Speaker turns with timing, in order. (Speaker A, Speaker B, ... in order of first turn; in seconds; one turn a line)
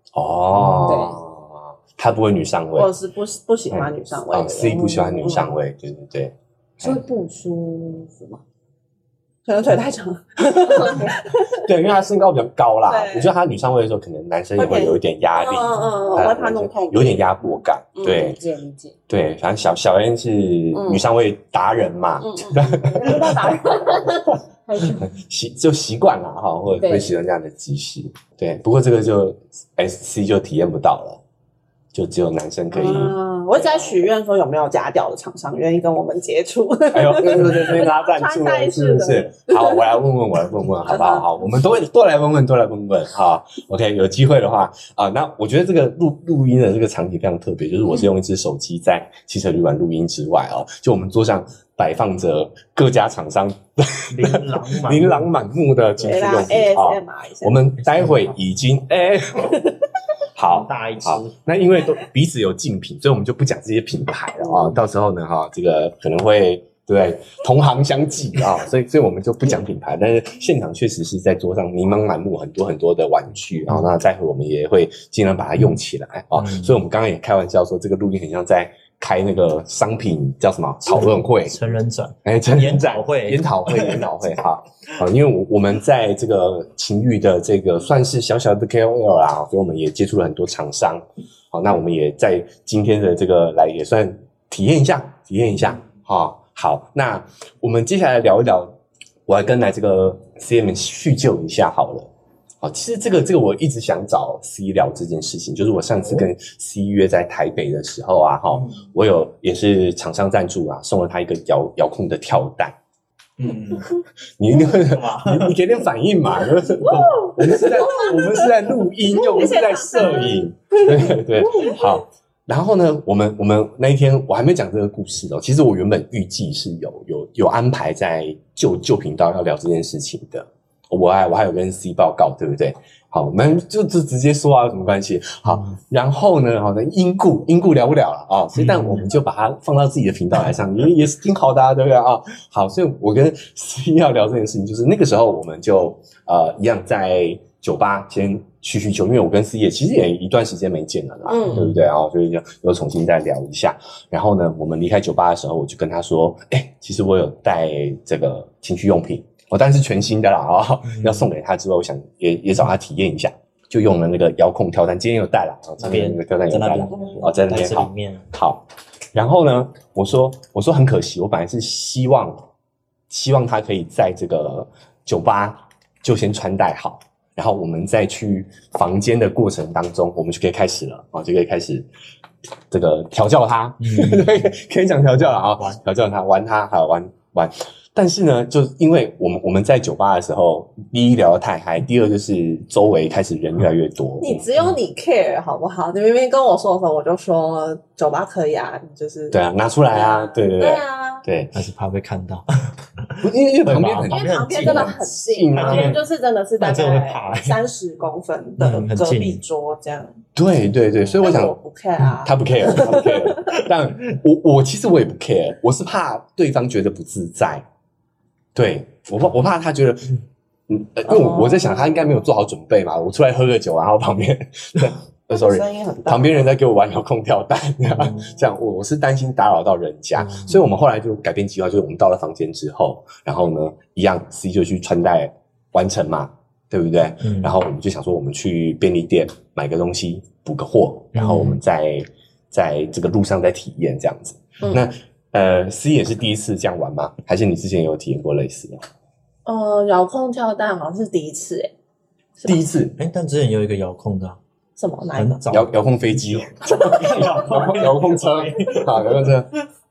Speaker A: 0.1-2.9
Speaker B: 0.6-0.8
Speaker C: 0.8-1.2
Speaker D: 2.7-5.5
Speaker A: 3.7-7.0
Speaker C: 6.8-8.4
Speaker D: 9.4-11.6
Speaker A: 11.6-18.4
Speaker D: 12.9-13.3
Speaker D: 14.6-17.3
Speaker D: 17.9-18.3
Speaker C: 18.0-18.9
Speaker A: 19.1-23.5
Speaker D: 20.7-21.0
Speaker D: 22.2-24.1
Speaker C: 22.9-25.0
Speaker A: 24.8-31.2
Speaker C: 26.8-27.1
Speaker A: 31.9-34.1
Speaker D: 32.7-40.0
Speaker A: 36.9-59.6
Speaker D: 40.9-41.2
Speaker B: 54.1-55.3
Speaker D: 56.0-57.6
Speaker B: 57.8-58.3
Speaker A: 60.3-81.6
Speaker B: 60.5-61.4
Speaker B: 76.3-76.8
Speaker B: 80.8-84.1
Speaker A: 82.2-98.8
Speaker A: 99.3-102.1
Speaker A: 102.6-112.8
Speaker B: 106.0-106.3
Speaker B: 108.5-108.8
Speaker B: 113.4-113.9
Speaker A: 114.4-172.4
Speaker B: 114.5-115.6
Speaker D: 116.8-118.5
Speaker D: 119.1-121.9
Speaker B: 135.4-135.8
Speaker B: 138.5-139.1
Speaker D: 151.2-151.7
Speaker B: 151.5-151.8
Speaker B: 160.9-161.3
Speaker B: 165.8-168.3
Speaker D: 166.9-167.4
Speaker A: 173.1-181.9
Speaker A: 182.7-194.5
Speaker B: 183.8-184.5
Speaker D: 194.2-199.4
Speaker A: 199.3-201.5
Speaker D: 199.9-201.2
Speaker B: 201.5-205.0
Speaker A: 203.2-206.0
Speaker D: 204.1-210.1
Speaker B: 205.5-206.0
Speaker B: 206.6-207.6
Speaker B: 208.6-209.4
Speaker A: 210.4-211.5
Speaker D: 211.2-213.6
Speaker A: 212.2-217.6
Speaker A: 218.5-220.2
Speaker A: 220.7-248.8
Speaker D: 221.1-222.2
Speaker D: 225.3-226.5
Speaker B: 227.9-228.3
Speaker B: 230.2-230.6
Speaker B: 237.2-237.5
Speaker B: 241.1-241.6
Speaker D: 244.6-244.8
Speaker D: 249.4-251.7
Speaker A: 252.4-252.9
Speaker B: 253.0-254.4
Speaker D: 254.8-255.4
Speaker B: 255.1-259.4
Speaker A: 255.5-259.5